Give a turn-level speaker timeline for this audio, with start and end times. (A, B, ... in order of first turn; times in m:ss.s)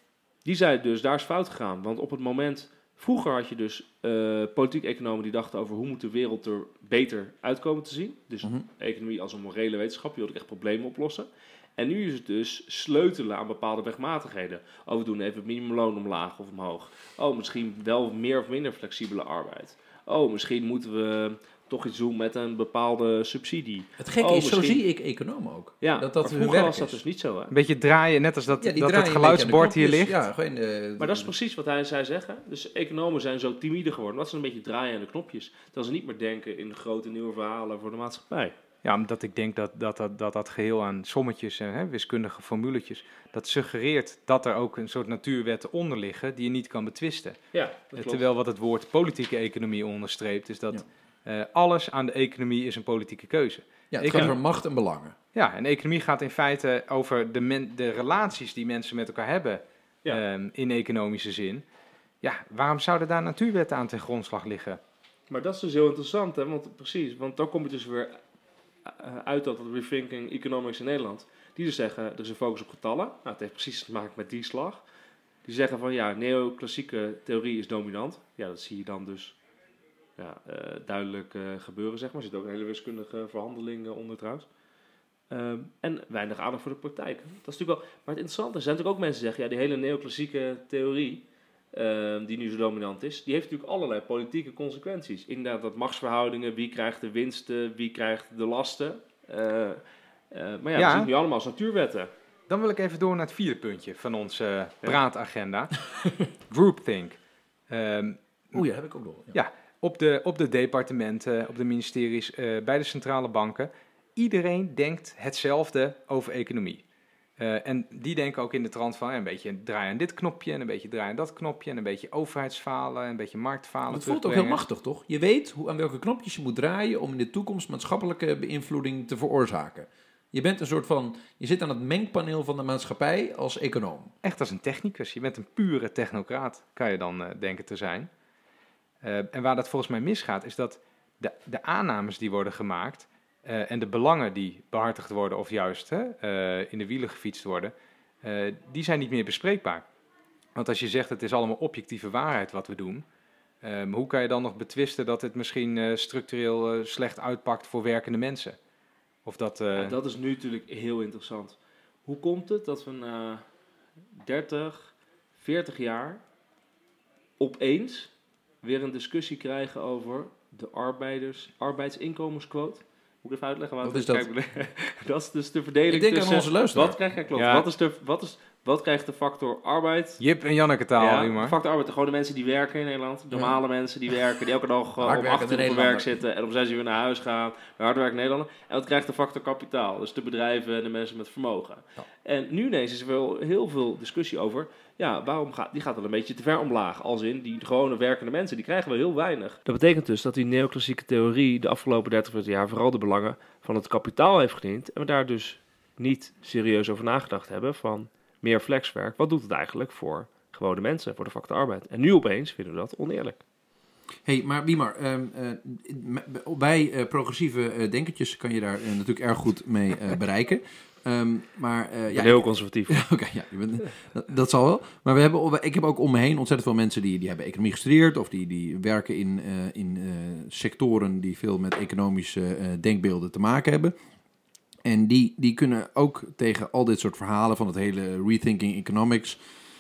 0:00.4-0:24.8 A
0:24.0-0:27.0 B
0:25.8-0:27.5 A
0:27.5-0:30.2 C
0:28.6-0:31.3 B
0:31.0-0:38.6 A
0:38.8-0:54.4 C
0:47.5-0:48.2 A
0:53.9-0:55.2 B
0:55.4-1:01.6 C
1:02.2-1:04.8 C
1:05.3-1:08.2 A
1:08.8-1:14.8 A
1:15.4-1:19.4 A
1:20.2-1:24.5 A
1:25.3-1:42.1 A
1:40.8-1:41.1 C
1:42.5-1:45.8 C
1:46.5-1:48.6 C
1:48.5-1:49.4 B
1:49.3-1:56.8 C
1:57.4-2:04.6 C
2:03.9-2:14.1 B
2:14.2-2:18.1 C
2:19.0-2:29.8 C
2:30.6-2:33.0 C
2:33.6-2:38.6 C
2:39.2-2:40.0 C
2:39.8-2:43.5 A
2:44.2-2:46.2 A
2:47.4-3:00.2 A
2:53.8-2:54.3 B
2:55.9-2:57.0 B
2:57.4-2:57.7 C
3:00.2-3:01.6 C
3:01.0-3:33.4 A
3:03.3-3:03.6 B
3:05.0-3:06.1 B
3:34.2-3:54.0 B
3:42.1-3:43.0 A
3:54.8-3:59.4 B